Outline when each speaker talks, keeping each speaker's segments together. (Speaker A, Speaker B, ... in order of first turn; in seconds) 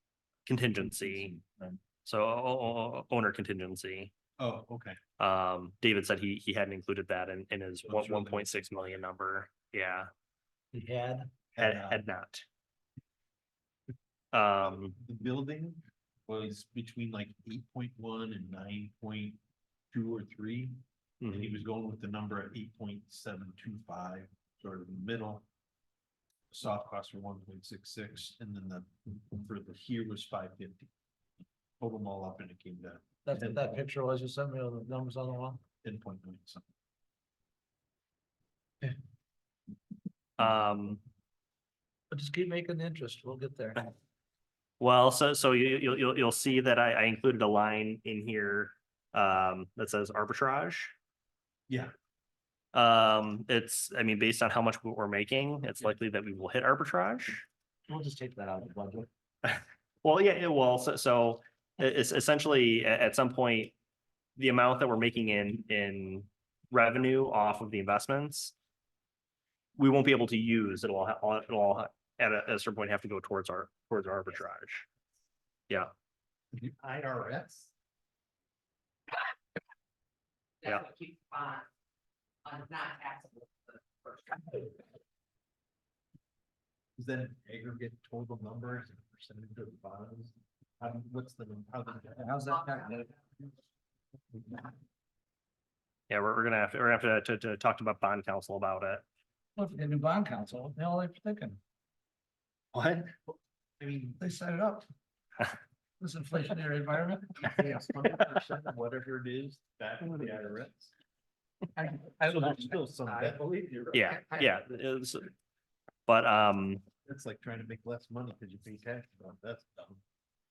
Speaker A: 0.5-1.3, 2.0-4.1, 5.2-10.1, 11.6-12.4, 14.3-15.0, 21.2-21.5, 40.4-41.0, 44.8-50.9, 52.7-57.5, 59.4-63.7, 64.4-68.5, 69.8-74.9, 96.1-99.0, 102.7-103.1, 113.9-115.3, 116.1-116.8
Speaker B: 1.3-1.7, 4.4-5.0, 7.9-8.5, 11.6-12.0, 15.0-19.4, 19.9-25.4, 26.5-30.9, 31.8-33.8, 35.8-36.7, 76.5-77.7, 87.0-92.2, 103.3-104.2, 107.4-110.9, 112.1-114.2, 117.0-120.0
Speaker C: 10.7-11.3, 33.3-35.6, 42.1-43.8, 57.9-59.1, 92.2-93.1, 99.6-101.6, 104.2-104.8, 106.0-107.5, 111.8-113.3
Speaker D: 80.6-81.7, 82.5-84.8, 92.5-93.1